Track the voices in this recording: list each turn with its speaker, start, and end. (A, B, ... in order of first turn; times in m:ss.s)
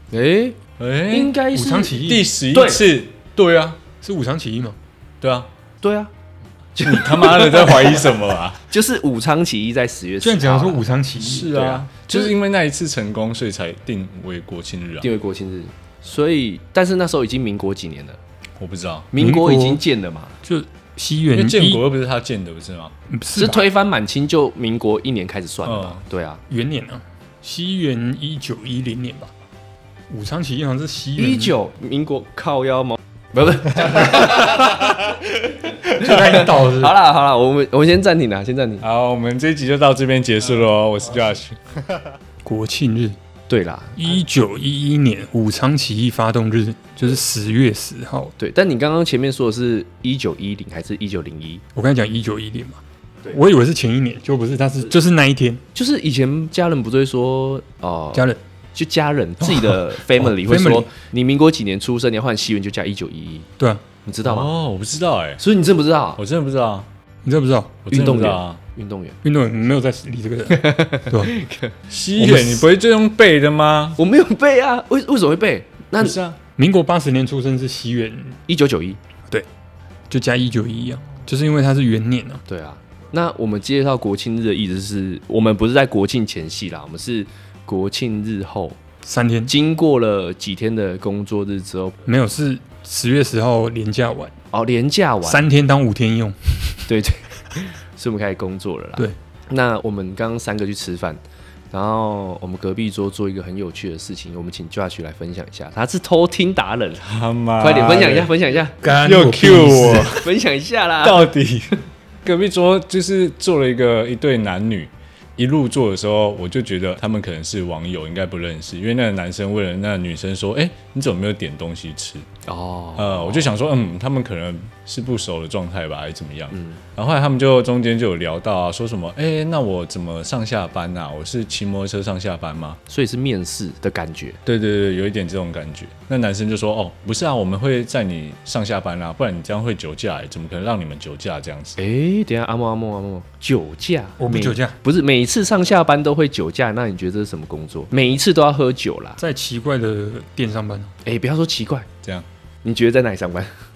0:00.1-0:00.6 A
0:00.8-0:01.4 B
0:01.1-0:02.8 A
0:01.5-0:02.3 C
0:02.0-0:03.8 B
0:04.0-0:04.8 C
0:05.2-0:05.5 B
0:05.8-0:06.1 A
0:06.7-0:08.2 A
0:06.8-0:08.6 B
0:08.7-0:10.8 A
0:10.2-0:11.6 C
0:11.2-0:15.1 B
0:11.5-0:12.3 A
0:15.0-0:18.2 A
0:18.6-0:19.1 B
0:19.1-0:20.4 A
0:19.2-0:19.8 C
0:20.4-0:21.8 C
0:21.3-0:22.9 B
0:23.1-0:23.6 C
0:23.3-0:26.4 A
0:25.6-0:26.0 B
0:26.5-0:29.3 C
0:30.1-0:31.6 C
0:31.2-0:38.8 A
0:36.0-0:37.0 C
0:38.8-0:42.0 B
0:42.4-0:43.2 C
0:43.5-0:44.2 A
0:44.0-0:48.3 C
0:48.4-0:51.6 A
0:51.7-0:55.6 C
0:55.7-1:03.5 A
0:59.4-1:00.9 C
1:04.0-1:04.5 A
1:04.2-1:05.4 B
1:05.4-1:06.2 A
1:06.2-1:06.9 B
1:07.2-1:07.8 C
1:07.8-1:08.6 B
1:07.9-1:09.2 A
1:09.2-1:11.3 C
1:10.5-1:11.8 A
1:11.9-1:14.0 B
1:12.2-1:12.7 C
1:14.0-1:16.2 A
1:16.0-1:16.4 B
1:16.6-1:18.4 C
1:18.5-1:19.0 A
1:20.1-1:22.4 C
1:22.5-1:28.8 A
1:29.0-1:29.5 C
1:29.5-1:32.0 A
1:32.0-1:34.3 C
1:34.5-1:35.4 A
1:35.2-1:36.9 C
1:36.9-1:47.1 A
1:47.0-1:48.3 B
1:47.6-1:49.0 A
1:48.7-1:50.2 C
1:48.9-1:50.3 B
1:50.0-1:51.3 A
1:51.0-2:02.2 B
2:02.5-2:03.5 A
2:03.0-2:12.8 B
2:06.5-2:06.8 A
2:12.9-2:14.4 A
2:14.4-2:21.8 B
2:21.8-2:29.2 A
2:24.2-2:24.8 C
2:29.2-2:30.9 C
2:31.0-2:31.9 A
2:32.6-2:33.5 A